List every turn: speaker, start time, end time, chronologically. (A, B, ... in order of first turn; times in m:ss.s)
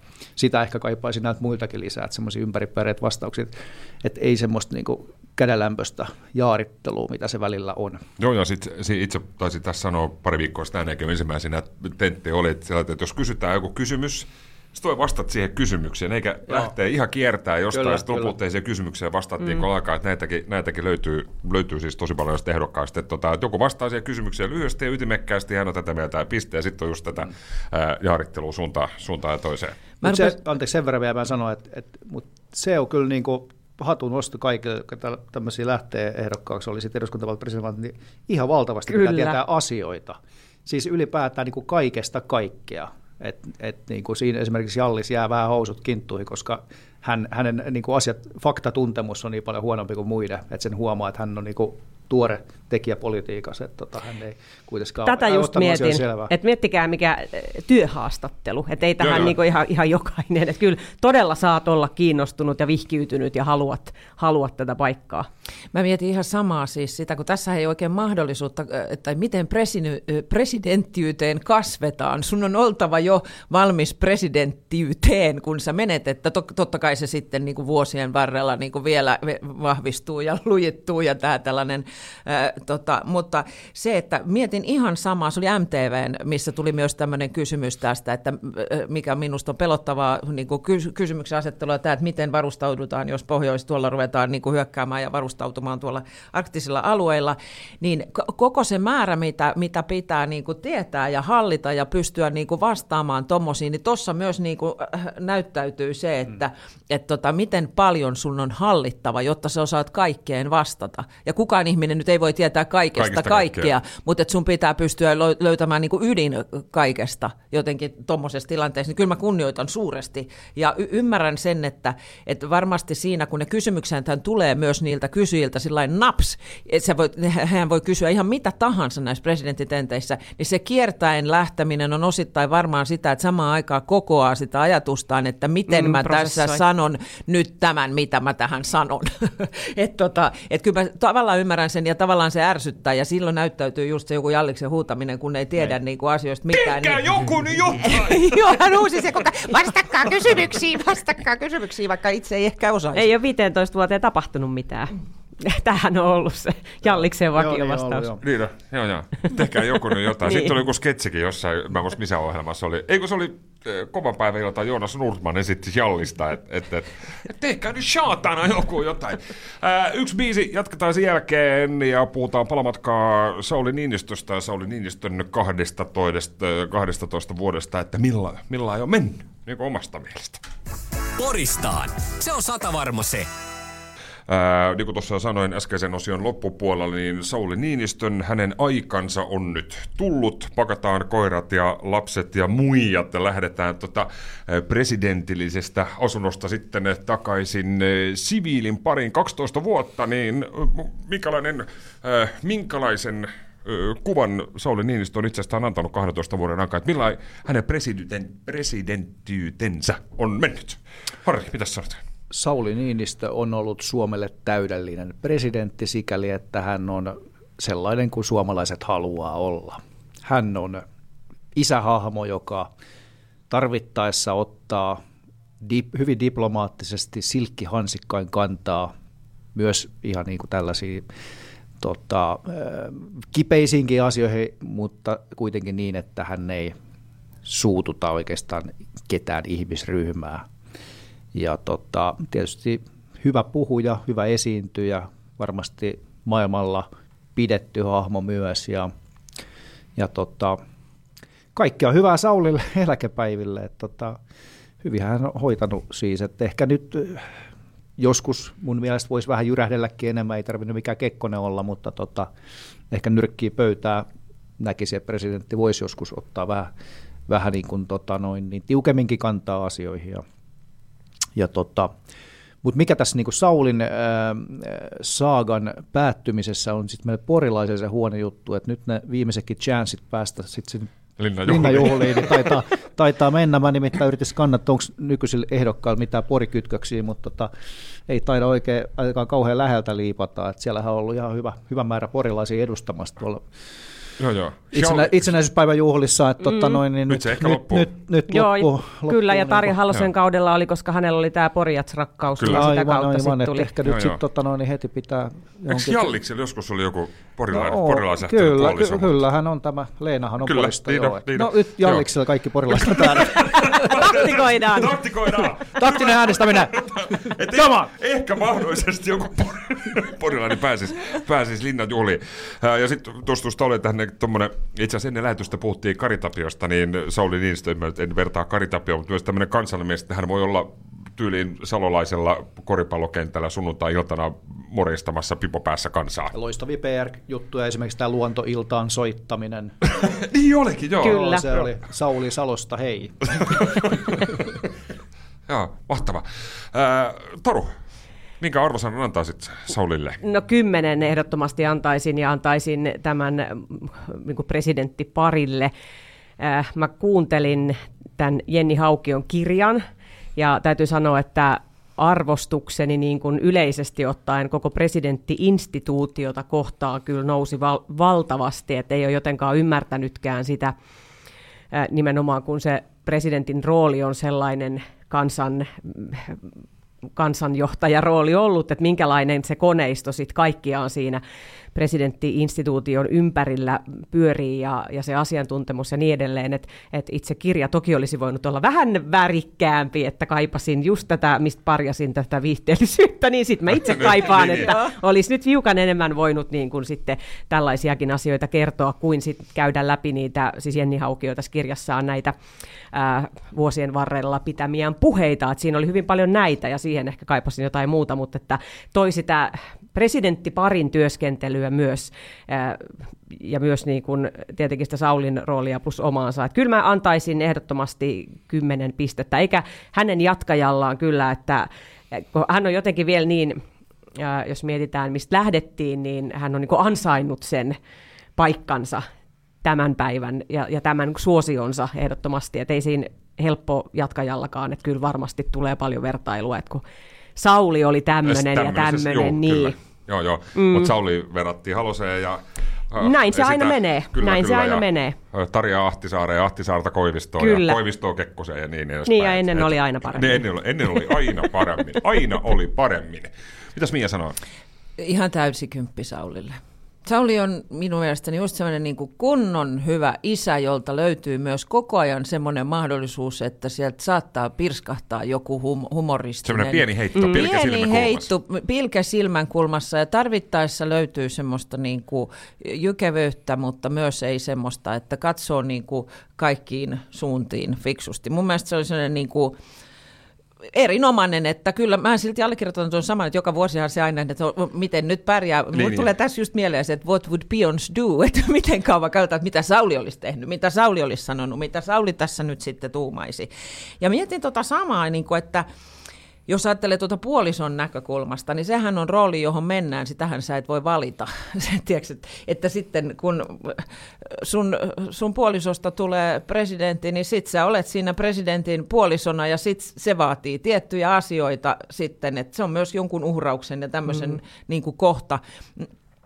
0:00.4-0:08.0 A
0:08.2-0:29.9 B
0:16.5-0:16.7 A
0:17.7-0:18.4 A
0:30.0-0:56.3 A
0:38.9-0:39.4 C
0:55.0-1:05.3 C
0:59.0-0:59.4 B
1:05.7-2:27.0 D
1:53.0-1:53.7 B
2:15.7-2:16.6 C
2:26.5-2:28.8 B
2:27.8-2:33.1 D
2:30.0-2:30.4 B
2:32.9-2:38.1 C
2:36.8-2:38.2 A
2:38.2-3:00.4 B
2:40.2-2:40.5 C
3:01.2-3:03.3 E
3:04.3-3:32.0 B
3:32.3-3:40.8 A
3:41.6-3:42.7 A
3:43.5-3:45.0 A
3:45.6-3:48.9 A
3:49.6-3:51.1 A
3:51.8-3:56.8 A
3:57.5-4:00.5 A
4:01.4-4:08.9 A
4:10.0-4:10.6 A
4:11.6-4:14.2 A
4:14.8-4:17.3 A
4:18.0-4:22.3 A
4:22.9-4:24.1 A
4:24.6-4:26.7 A
4:27.3-4:30.2 A
4:31.4-4:31.9 A
4:32.6-4:40.9 A
4:41.2-4:42.6 B
4:41.4-4:47.5 A
4:48.1-4:53.4 A
4:54.2-4:55.3 B
4:54.7-4:59.8 A
4:56.5-4:56.8 C
4:57.1-4:57.9 B
4:58.3-5:03.7 C
5:02.4-5:02.7 B
5:02.4-5:06.1 A
5:03.8-5:04.2 B
5:05.7-5:09.2 B
5:07.5-5:13.9 A
5:10.4-5:12.1 B
5:12.7-5:36.4 B
5:13.4-5:14.9 C
5:15.8-5:17.9 A
5:36.3-5:39.7 A
5:39.9-5:41.2 B
5:41.0-5:43.6 A
5:41.0-5:41.6 C
5:43.4-5:44.4 B
5:45.5-5:47.7 B
5:48.4-5:50.2 B
5:50.2-5:55.7 C
5:56.4-5:59.8 C
6:00.4-6:10.7 C
6:11.7-6:16.4 C
6:17.2-6:21.2 C
6:21.8-6:42.3 C
6:33.7-6:34.8 B
6:34.4-6:34.9 D
6:42.9-7:03.6 C
7:04.2-7:07.8 C
7:08.4-7:09.0 C
7:09.6-7:16.8 C
7:17.4-7:19.8 C
7:18.3-7:34.4 B
7:20.6-7:20.9 C
7:23.0-7:25.2 C
7:27.4-7:27.8 C
7:29.1-7:30.4 C
7:35.0-7:59.6 D
7:46.4-7:48.3 B
8:00.7-8:13.5 D
8:05.7-8:06.1 B
8:14.0-8:15.6 D
8:16.5-8:35.9 D